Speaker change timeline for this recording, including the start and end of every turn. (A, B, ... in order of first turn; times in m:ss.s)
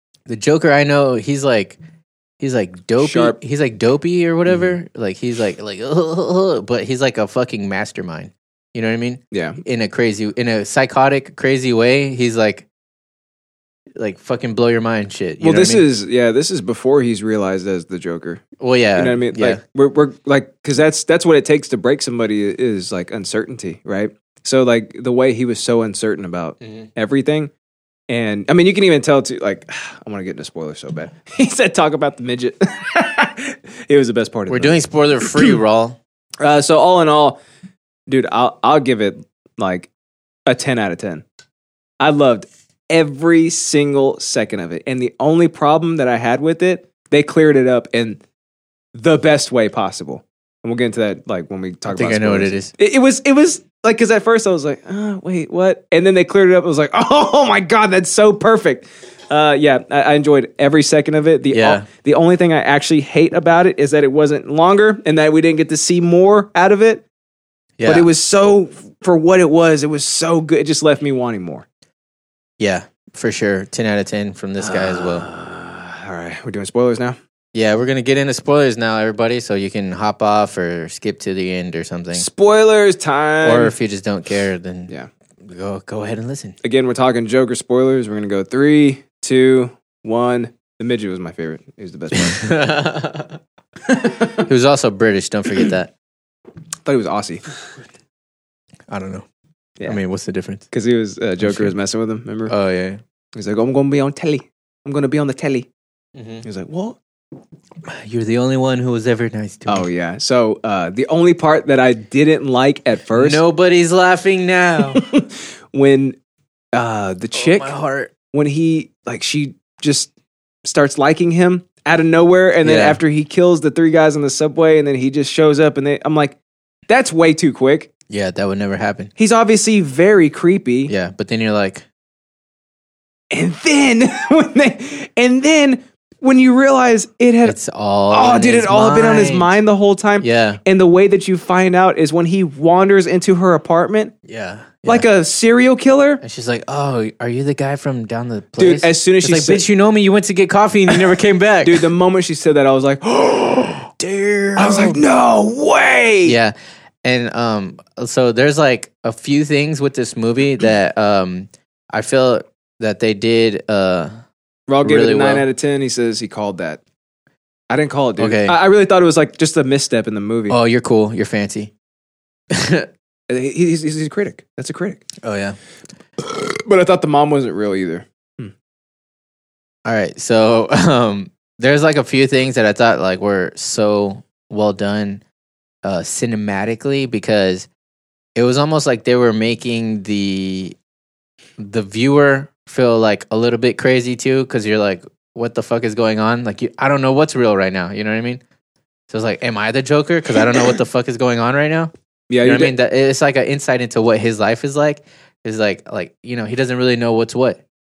0:00.3-0:01.8 A
0:02.4-0:12.7 A
0:03.0-0:03.4 B
0:04.5-0:04.7 B
0:09.3-0:09.6 B
0:14.0-0:15.8 A
0:15.4-0:18.4 B
0:18.6-0:19.6 A
0:19.0-0:27.5 B
0:26.6-0:26.9 A
0:28.1-0:35.5 B
0:34.5-0:36.0 A
0:36.4-0:37.4 B
0:38.1-0:39.9 B
0:40.5-0:41.2 B
0:42.0-0:48.2 B
0:48.9-1:07.0 B
0:51.9-0:52.7 A
1:01.5-1:01.9 A
1:07.8-1:08.1 A
1:07.9-1:11.6 B
1:12.6-1:15.3 A
1:14.6-1:17.2 B
1:17.5-1:22.3 A
1:22.1-1:23.8 B
1:23.4-1:26.6 A
1:26.6-1:32.4 B
1:32.1-1:33.4 A
1:34.4-1:35.9 A
1:36.8-1:37.4 B
1:38.9-1:39.2 A
1:39.8-1:40.7 A
1:40.7-1:42.5 B
1:41.4-1:41.7 A
1:42.5-1:43.0 A
1:43.4-1:45.7 B
1:46.2-1:46.4 A
1:46.4-1:47.0 B
1:47.9-1:49.9 A
1:49.7-1:53.4 B
1:53.2-1:55.0 A
1:55.0-1:56.2 B
1:56.7-1:57.7 B
1:57.3-1:58.1 A
1:58.3-2:00.1 B
2:00.6-2:06.4 B
2:02.6-2:03.0 A
2:06.9-2:07.9 B
2:08.1-2:09.1 A
2:09.2-2:10.9 B
2:10.9-2:11.8 A
2:13.3-2:17.6 B
2:17.4-2:19.6 A
2:18.1-2:24.1 B
2:20.2-2:20.6 A
2:24.2-2:25.1 A
2:24.9-2:26.2 B
2:26.2-2:31.9 A
2:28.6-2:29.7 B
2:31.6-2:33.9 B
2:34.0-2:35.0 A
2:34.6-2:36.4 B
2:36.2-2:44.2 A
2:44.7-2:46.8 B
2:44.8-2:45.5 A
2:47.7-2:50.6 B
2:48.2-2:48.6 A
2:50.5-2:51.7 A
2:52.5-2:52.9 A
2:53.3-2:55.0 B
2:55.2-2:55.6 A
2:56.4-2:58.5 B
2:59.8-3:05.2 A
3:05.8-3:07.7 A
3:08.4-3:10.8 A
3:11.6-3:18.4 A
3:19.1-3:21.9 A
3:22.3-3:22.7 B
3:22.4-3:27.6 A